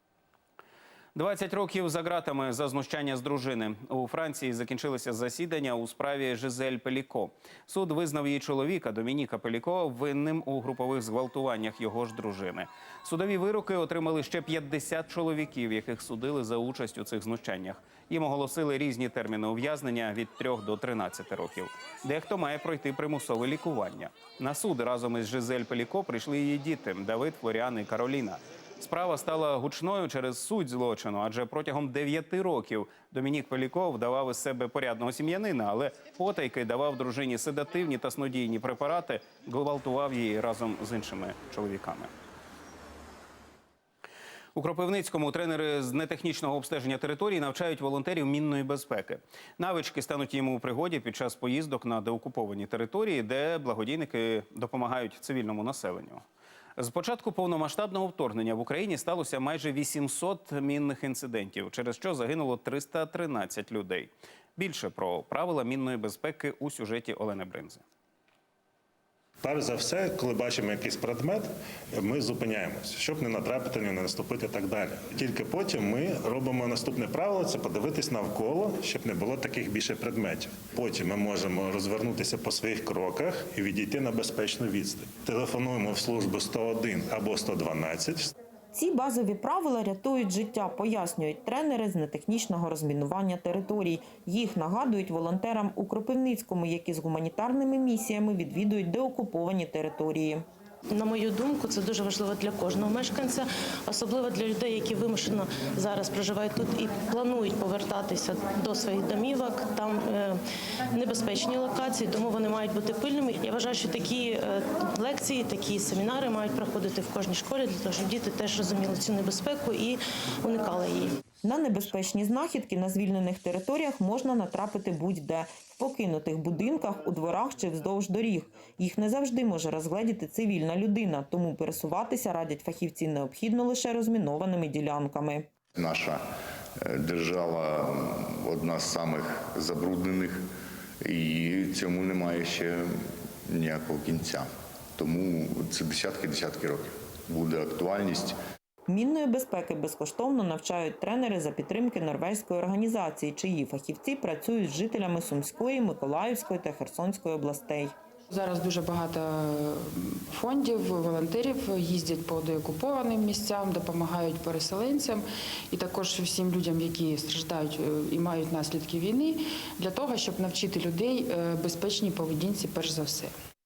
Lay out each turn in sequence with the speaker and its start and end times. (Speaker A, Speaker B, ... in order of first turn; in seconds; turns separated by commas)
Speaker A: 1.1-42.1, Speaker A: 44.5-56.2, Speaker A: 56.8-67.8, Speaker B: 69.4-88.3, Speaker C: 88.7-100.4, Speaker D: 100.9-110.4, Speaker D: 110.9-121.1, Speaker C: 121.4-135.5, Speaker E: 135.8-136.2, Speaker E: 136.9-140.5, Speaker E: 141.1-142.9, Speaker E: 143.5-144.5, Speaker E: 145.0-148.4, Speaker C: 148.9-157.9, Speaker F: 158.3-173.3